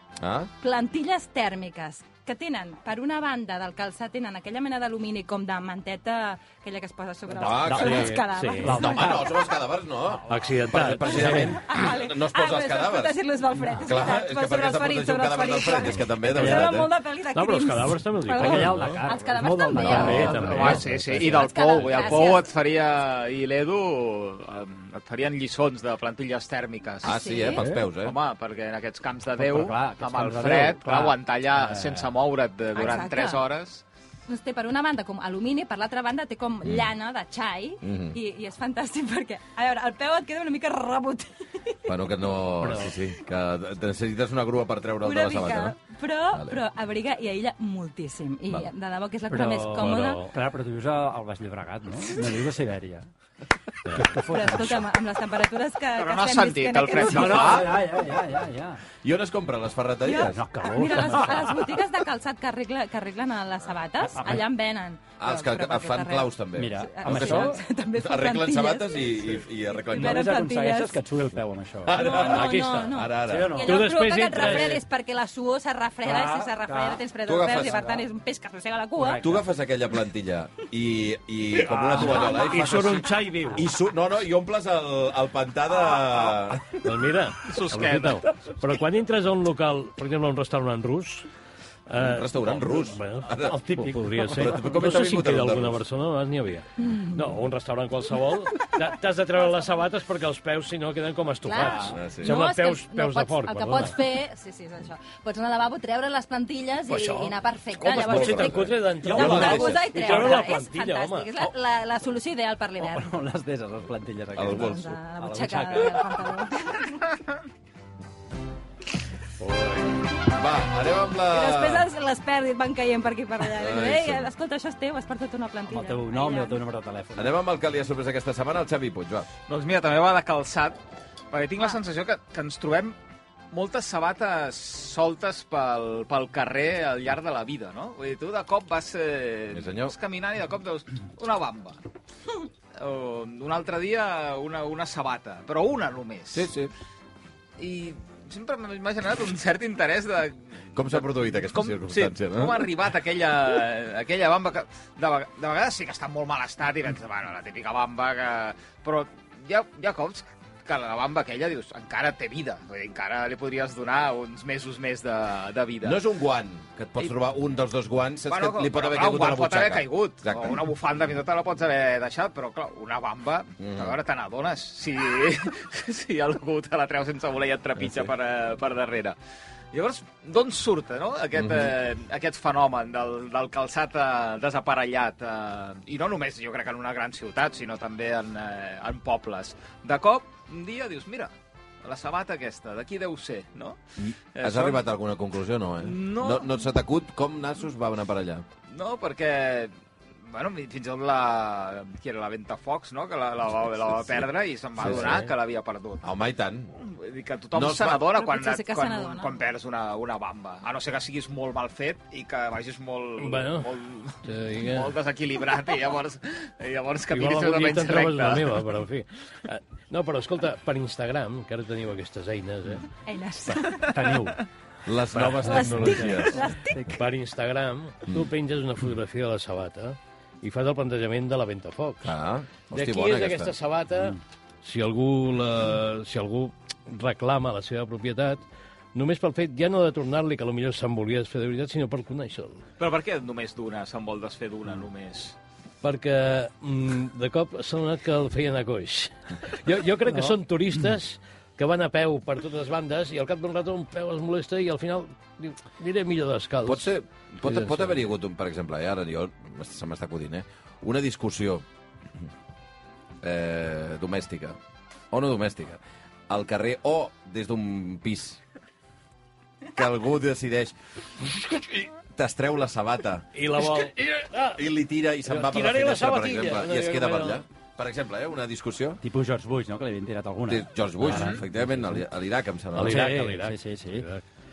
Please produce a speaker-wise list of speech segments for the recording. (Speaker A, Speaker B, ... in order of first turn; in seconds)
Speaker A: 0.2-0.5, 7.4-8.2, 8.7-13.2, 13.8-16.9, 27.0-28.2, 37.8-38.2, 41.9-45.8, 46.3-46.6, 57.3-57.7, 59.0-60.4, 65.2-70.3, 71.8-73.7, 77.3-77.8, 79.2-86.7, 92.0-93.6, 94.3-95.8, 101.9-102.3, 107.8-109.8, 114.4-114.8, 120.3-121.9, 123.5-124.3, 127.2-129.3, 139.5-139.9, 146.3-146.7, 150.7-152.7, 165.8-170.6, 173.6-174.0, 177.8-178.1, 181.4-181.7, 194.0-198.5, 204.8-205.2, 206.0-206.8, 207.5-208.1, 224.8-226.4, 232.0-233.5, 256.6-261.6, 263.2-264.6, 265.1-268.4, 269.7-270.8, 271.7-273.9, 274.6-279.0, 280.5-283.1
Speaker B: 0.6-9.3, 11.4-20.7, 21.2-22.5, 27.0-27.6, 32.7-33.4, 34.3-41.9, 45.0-50.3, 54.2-57.7, 60.1-66.3, 66.9-69.1, 69.8-71.0, 71.9-79.3, 82.1-82.7, 96.8-97.1, 101.5-113.1, 114.6-117.2, 121.3-126.6, 208.1-209.4, 223.1-224.2, 225.5-226.8
Speaker C: 7.3-9.3, 18.3-22.2, 27.6-27.8, 29.4-32.1, 49.3-53.1, 53.9-54.9, 57.0-58.8, 60.1-61.6, 64.1-64.4, 66.5-67.6, 69.9-72.0, 73.3-74.8, 76.0-77.0, 77.5-78.0, 79.0-79.4, 81.7-82.4, 93.6-94.8, 101.6-101.9, 109.0-110.5, 112.8-116.0, 125.7-127.3, 223.9-224.4, 225.6-227.0, 279.0-282.0, 282.8-284.1
Speaker D: 7.7-8.8, 10.3-11.6, 16.4-16.8, 17.3-19.1, 19.8-21.2, 49.7-50.3, 72.0-73.0, 73.7-74.8, 81.9-83.7, 86.7-91.3, 91.9-104.0, 106.9-111.5, 119.4-119.9, 204.8-205.3, 213.2-213.7, 214.2-214.9, 217.1-222.9, 225.1-226.2, 226.9-232.2, 232.7-238.4, 238.9-242.6, 245.8-256.9, 257.4-258.0, 273.4-274.7, 275.2-277.4, 282.8-284.2
Speaker E: 20.2-27.4, 28.0-33.8, 56.0-57.8, 87.4-88.3, 129.5-130.8, 131.3-133.0, 133.5-141.8, 142.8-146.5, 147.6-166.0, 168.3-179.2, 179.7-191.3, 191.8-193.8, 194.4-194.8, 195.8-196.5, 198.7-199.7, 200.2-206.0, 206.8-218.6, 242.8-245.3, 281.1-281.4